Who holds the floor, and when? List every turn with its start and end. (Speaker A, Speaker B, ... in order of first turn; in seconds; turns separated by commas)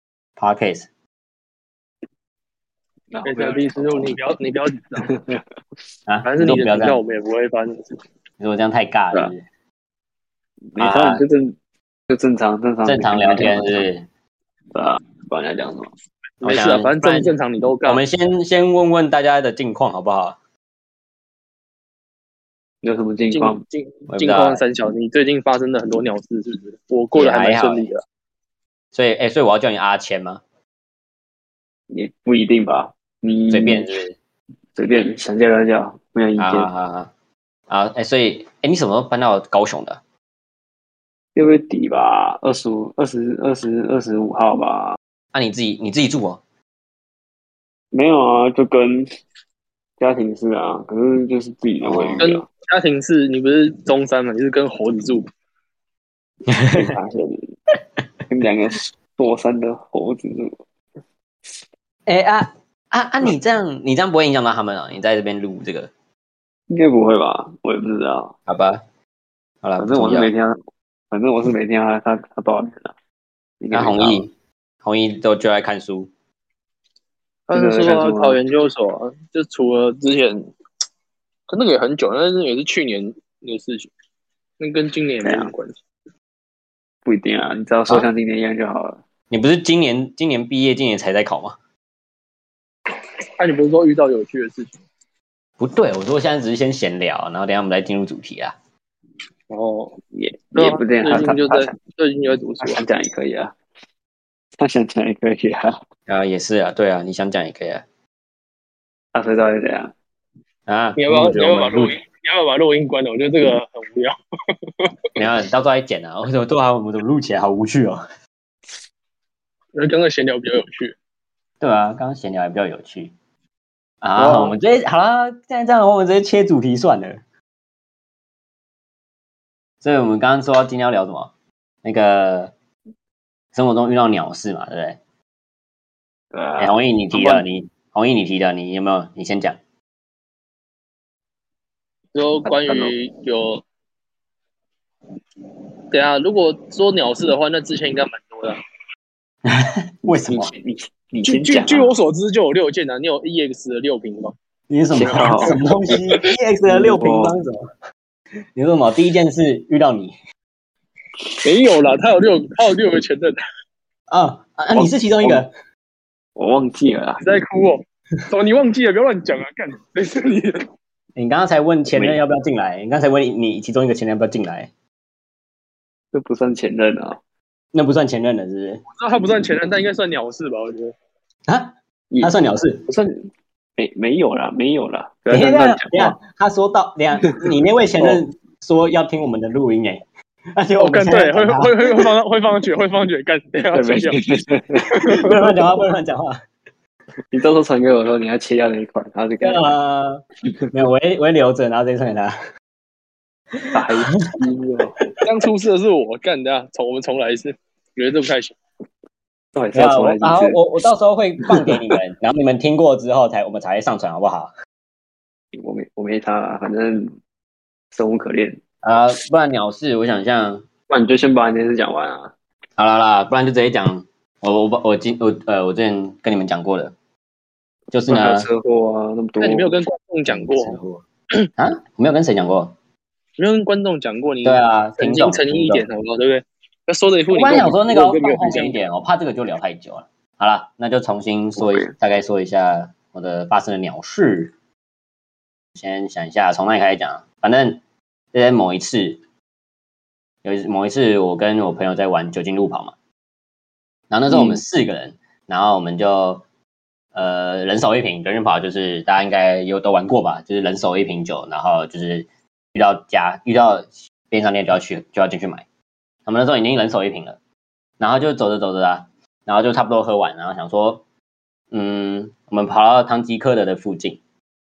Speaker A: 0.4-0.9, Speaker B: 3.1-4.4, Speaker C: 3.2-5.1, Speaker B: 5.0-5.4, Speaker A: 6.1-7.0, Speaker C: 6.2-8.0, Speaker A: 8.4-9.4, Speaker B: 10.7-11.6, Speaker A: 10.8-11.2, Speaker B: 12.1-13.8, Speaker A: 12.8-14.1, Speaker B: 14.7-15.9, Speaker C: 16.4-18.0, Speaker A: 16.4-17.3, Speaker A: 17.8-20.4, Speaker B: 22.8-23.6, Speaker C: 23.3-28.0, Speaker A: 24.1-24.6, Speaker A: 27.1-27.9, Speaker A: 28.9-30.4, Speaker B: 31.9-33.9, Speaker A: 33.5-34.2, Speaker B: 34.7-36.7, Speaker A: 36.4-37.1, Speaker A: 37.7-40.0, Speaker B: 41.4-45.0, Speaker A: 45.3-46.4, Speaker B: 47.9-49.1, Speaker B: 50.0-52.5, Speaker A: 51.8-52.2, Speaker C: 52.2-55.3, Speaker A: 56.5-56.9, Speaker B: 56.7-57.5, Speaker B: 58.3-60.6, Speaker A: 62.1-65.9, Speaker B: 66.7-68.3, Speaker A: 68.5-68.8, Speaker A: 69.6-70.3, Speaker B: 69.8-70.6, Speaker B: 71.1-72.9, Speaker B: 73.6-74.2, Speaker A: 73.7-74.3, Speaker A: 74.8-76.1, Speaker C: 77.5-80.5, Speaker B: 77.5-78.4, Speaker C: 81.5-83.9, Speaker C: 84.6-85.8, Speaker B: 85.2-85.5, Speaker B: 87.0-89.0, Speaker A: 89.3-91.6, Speaker C: 93.4-94.7, Speaker A: 95.6-98.5, Speaker C: 99.5-100.0, Speaker B: 100.1-101.7, Speaker C: 100.5-102.8, Speaker B: 102.6-103.5, Speaker B: 104.6-105.8, Speaker A: 106.1-107.8, Speaker B: 109.1-109.9, Speaker A: 110.7-112.0, Speaker C: 111.0-114.1, Speaker A: 115.2-118.0, Speaker C: 119.7-121.0, Speaker A: 121.6-123.1, Speaker A: 124.0-127.2, Speaker C: 124.2-124.5, Speaker A: 129.8-131.3, Speaker A: 131.8-132.5, Speaker A: 133.5-135.0, Speaker B: 136.3-137.4, Speaker A: 136.6-139.6, Speaker C: 142.1-143.6, Speaker B: 142.4-142.9, Speaker C: 145.9-148.6, Speaker A: 149.4-150.5, Speaker B: 150.0-151.9, Speaker C: 151.2-154.3, Speaker A: 154.7-157.7, Speaker B: 154.9-157.3, Speaker C: 155.1-155.6, Speaker A: 158.5-160.1, Speaker C: 161.4-163.4, Speaker A: 164.1-165.5, Speaker B: 164.7-165.4, Speaker B: 166.3-167.2, Speaker C: 167.2-170.7, Speaker A: 171.2-174.7, Speaker B: 171.9-172.2, Speaker B: 176.1-177.2, Speaker A: 177.7-178.8, Speaker C: 178.9-180.9, Speaker A: 181.5-182.8, Speaker B: 182.1-182.3, Speaker B: 182.9-186.2, Speaker A: 185.3-190.0, Speaker A: 190.5-192.0, Speaker C: 190.8-194.2, Speaker B: 193.7-194.9, Speaker C: 194.9-195.3, Speaker A: 195.0-196.4, Speaker B: 197.3-199.7, Speaker A: 199.4-202.3, Speaker A: 203.6-204.3, Speaker B: 203.7-205.0, Speaker C: 205.2-208.6, Speaker B: 209.5-210.6, Speaker A: 209.7-214.5, Speaker B: 211.4-211.8, Speaker B: 215.5-217.1, Speaker B: 217.9-218.6, Speaker A: 218.8-220.7, Speaker B: 220.9-222.3, Speaker A: 222.8-226.9, Speaker A: 227.9-228.5, Speaker B: 228.1-229.8, Speaker C: 229.4-230.8, Speaker A: 230.2-231.0, Speaker A: 231.6-232.7, Speaker C: 233.4-238.8, Speaker A: 234.4-235.8, Speaker A: 237.3-244.5, Speaker B: 241.6-241.9, Speaker A: 245.8-247.8, Speaker A: 248.3-249.2, Speaker A: 250.4-252.9, Speaker A: 254.1-256.4, Speaker B: 254.3-254.6, Speaker A: 257.1-265.6, Speaker A: 266.2-267.4, Speaker A: 268.0-271.0, Speaker A: 271.7-274.2